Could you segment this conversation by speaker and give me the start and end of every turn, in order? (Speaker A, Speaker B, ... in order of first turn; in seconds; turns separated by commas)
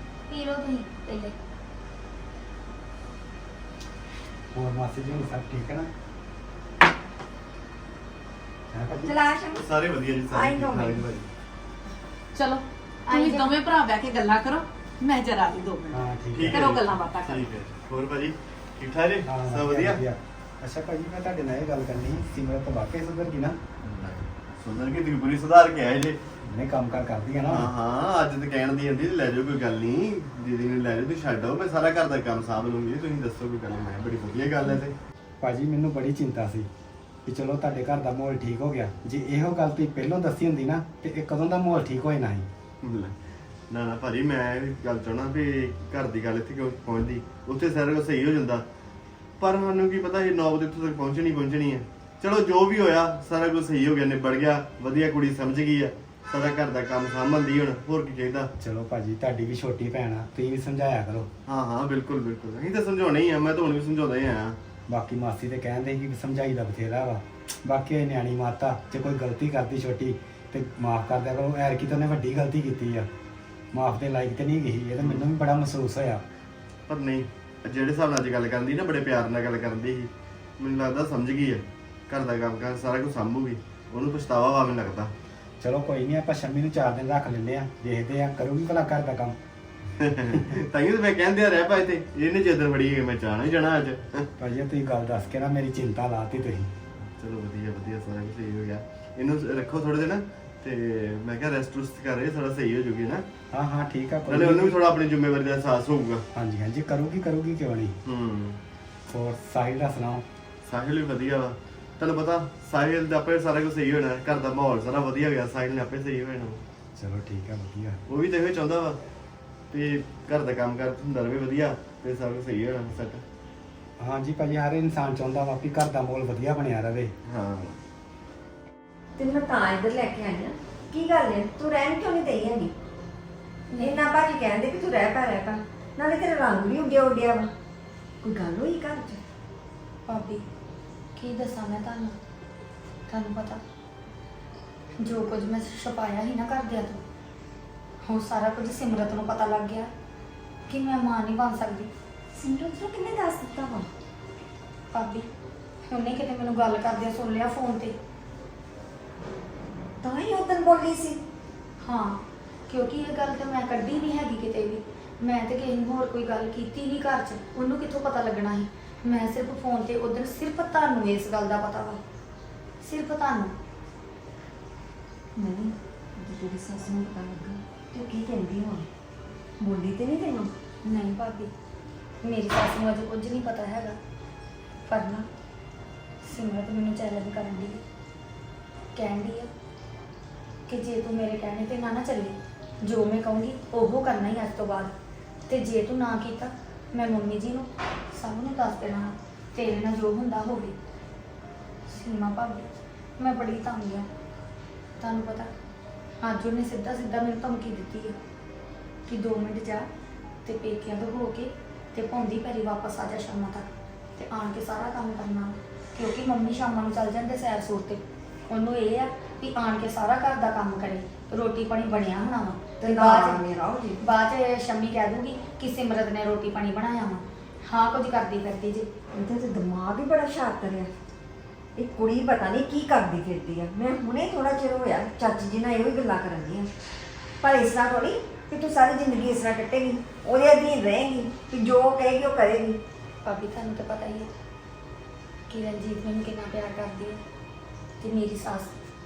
Speaker A: 0.3-1.4, Speaker B: 4.5-5.9, Speaker B: 8.7-9.2, Speaker C: 9.0-9.6, Speaker D: 9.6-11.3, Speaker C: 10.3-11.1, Speaker E: 12.3-17.4, Speaker A: 13.1-13.5, Speaker B: 15.9-16.8, Speaker D: 16.3-20.0, Speaker B: 19.3-23.6, Speaker D: 23.8-26.2, Speaker B: 26.5-27.7, Speaker D: 27.5-35.0, Speaker B: 35.4-36.7, Speaker B: 37.3-42.5, Speaker D: 42.8-43.2, Speaker D: 43.7-48.6, Speaker D: 49.4-58.5, Speaker B: 58.6-61.3, Speaker D: 61.5-64.6, Speaker B: 64.9-73.1, Speaker B: 73.7-76.2, Speaker D: 76.9-85.1, Speaker B: 85.6-89.4, Speaker D: 90.0-94.3, Speaker B: 90.3-90.6, Speaker B: 94.4-96.7, Speaker D: 97.2-103.2, Speaker B: 103.5-104.8, Speaker D: 104.3-106.2, Speaker B: 106.3-108.0, Speaker D: 108.1-108.6, Speaker B: 109.1-110.2, Speaker D: 110.7-116.6, Speaker B: 117.0-118.0, Speaker D: 118.1-119.0, Speaker D: 119.7-123.2, Speaker B: 124.0-127.1, Speaker D: 127.3-127.8, Speaker C: 129.2-132.7, Speaker A: 133.7-134.0, Speaker C: 133.8-137.5, Speaker C: 138.2-139.2, Speaker A: 140.1-140.4, Speaker A: 141.2-142.2, Speaker A: 143.1-143.6, Speaker A: 145.0-147.0, Speaker A: 148.1-149.9, Speaker A: 150.7-151.9, Speaker C: 152.3-153.9, Speaker A: 154.9-155.3, Speaker A: 155.9-157.9, Speaker C: 160.0-161.2, Speaker A: 161.8-172.0, Speaker A: 172.8-173.5, Speaker C: 175.4-178.9, Speaker C: 179.6-180.5, Speaker A: 180.9-181.5, Speaker A: 182.2-184.0, Speaker A: 184.9-185.3, Speaker A: 186.2-187.8, Speaker A: 188.9-189.5, Speaker A: 190.7-194.9, Speaker A: 195.5-200.8, Speaker A: 201.9-202.7, Speaker A: 203.2-204.1, Speaker A: 205.0-205.5, Speaker A: 206.2-208.2, Speaker A: 209.1-209.9, Speaker A: 210.4-223.4, Speaker C: 222.8-224.0, Speaker A: 224.0-228.9, Speaker C: 229.2-230.9, Speaker C: 231.8-236.7, Speaker C: 237.4-242.8, Speaker A: 243.2-244.3, Speaker A: 245.5-247.2, Speaker A: 248.0-248.8